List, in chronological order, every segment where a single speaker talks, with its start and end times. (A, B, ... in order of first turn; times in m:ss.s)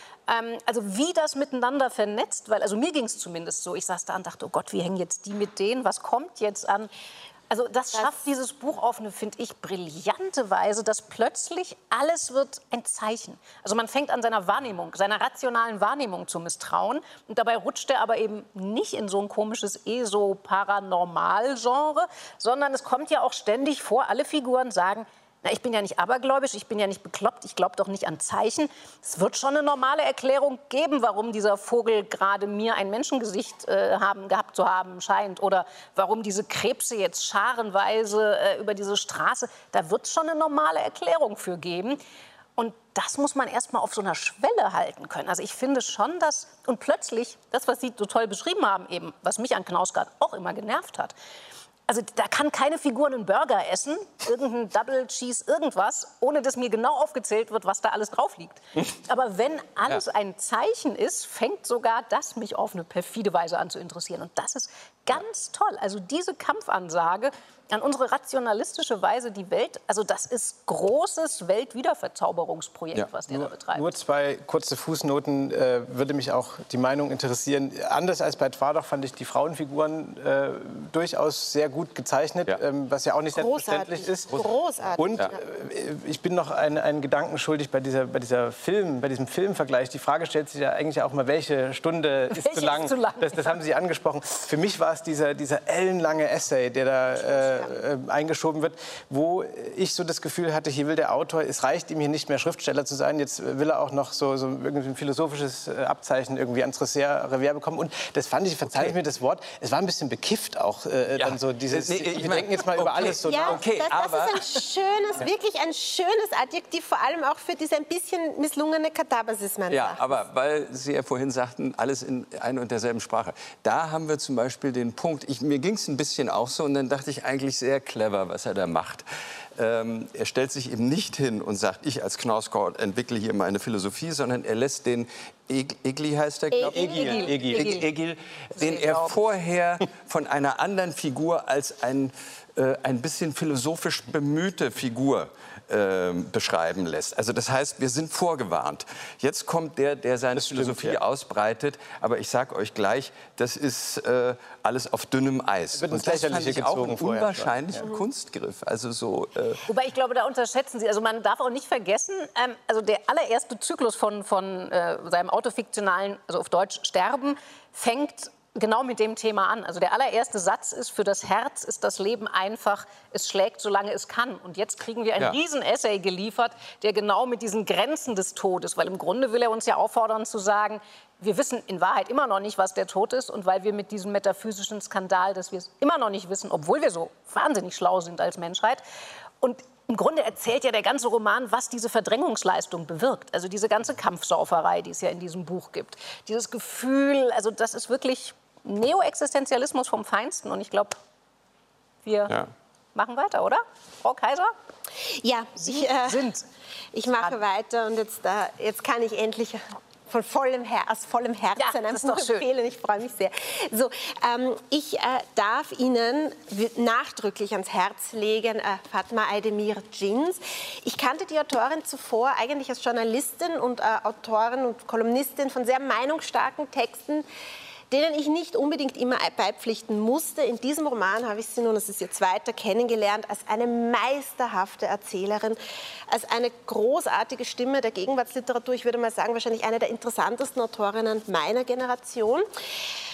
0:00.3-0:06.9 A
0:07.5-0:42.0 A
0:42.6-0:51.1 A
0:51.9-1:13.9 A
1:13.3-1:24.4 B
1:23.4-1:25.4 C
1:25.0-1:53.6 B
1:32.3-1:33.6 A
1:37.1-1:37.8 C
1:51.2-1:54.7 D
1:53.2-2:00.0 C
1:59.7-2:09.0 D
2:09.6-2:39.6 D
2:16.5-2:17.8 A
2:16.7-2:17.7 B
2:18.6-2:19.2 A
2:30.4-2:31.0 B
2:35.7-2:37.8 B
2:39.7-3:08.8 A
3:09.4-3:21.0 A
3:22.0-3:22.4 A
3:23.0-3:24.5 A
3:25.0-3:26.2 C
3:25.6-3:26.5 A
3:26.9-3:47.2 C
3:31.6-3:32.5 A
3:47.9-3:55.6 C
3:56.1-4:02.5 C